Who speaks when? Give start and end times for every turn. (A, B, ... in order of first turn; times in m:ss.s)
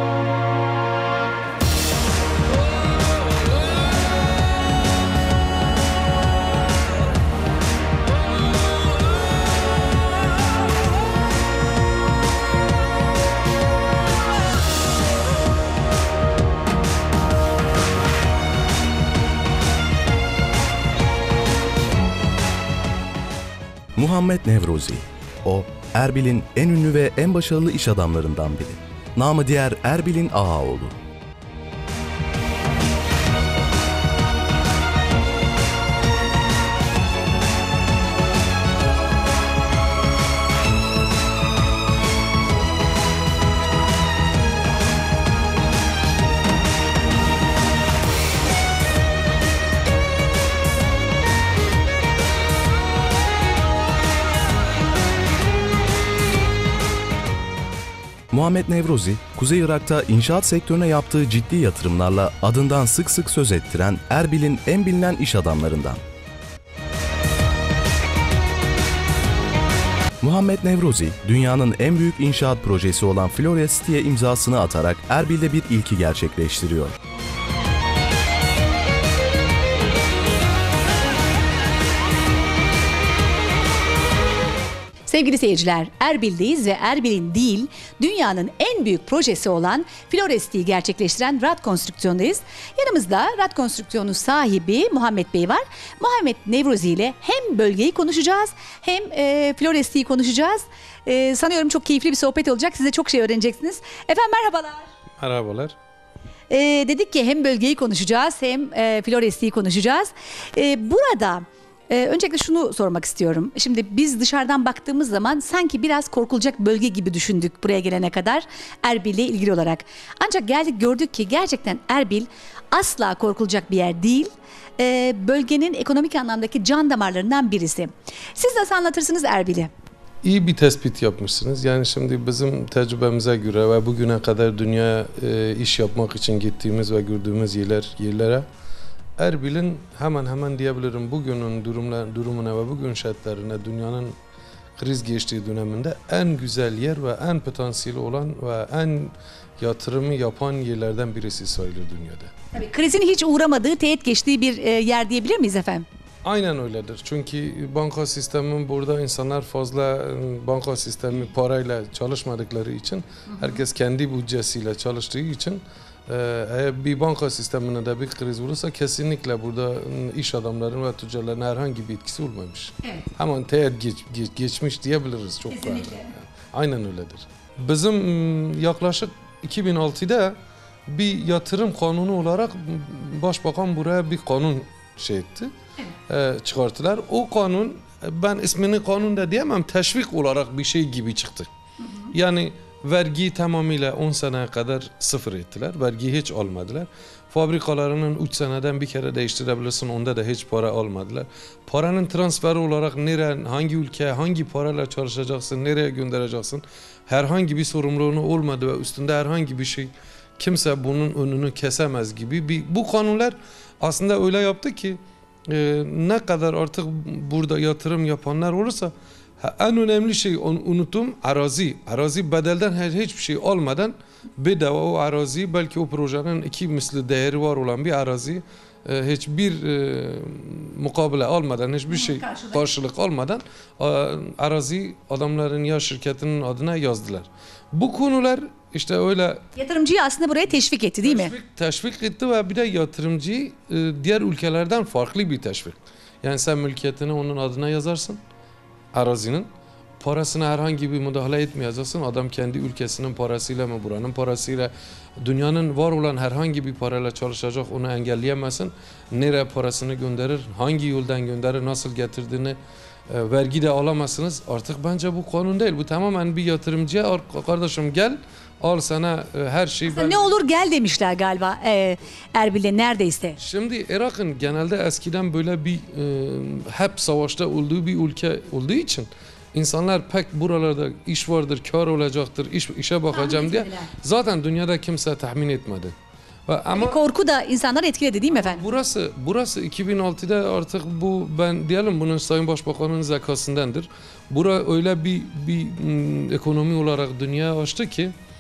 0:24.0-0:31.0 A
0:58.3-1:06.0 A
1:10.2-1:17.0 A
1:25.1-1:44.9 B
1:45.2-1:45.8 C
1:46.5-2:09.7 B
2:10.2-2:18.5 C
2:19.2-2:24.1 C
2:24.8-2:32.3 C
2:32.5-2:35.9 B
2:36.2-3:00.4 C
2:43.3-2:43.6 B
2:55.5-2:56.1 B
3:00.9-3:05.5 C
3:06.1-3:11.5 C
3:11.8-3:12.1 B
3:12.1-3:59.4 C
3:51.9-3:52.6 B
3:59.6-4:01.3 B
4:01.0-4:08.2 C
4:08.9-4:09.5 C
4:10.0-4:22.6 C
4:23.1-4:30.2 C
4:29.9-4:33.4 B
4:33.4-4:45.9 C
4:43.1-4:43.9 B
4:46.5-4:47.0 C
4:46.8-4:48.6 B
4:48.3-4:58.1 C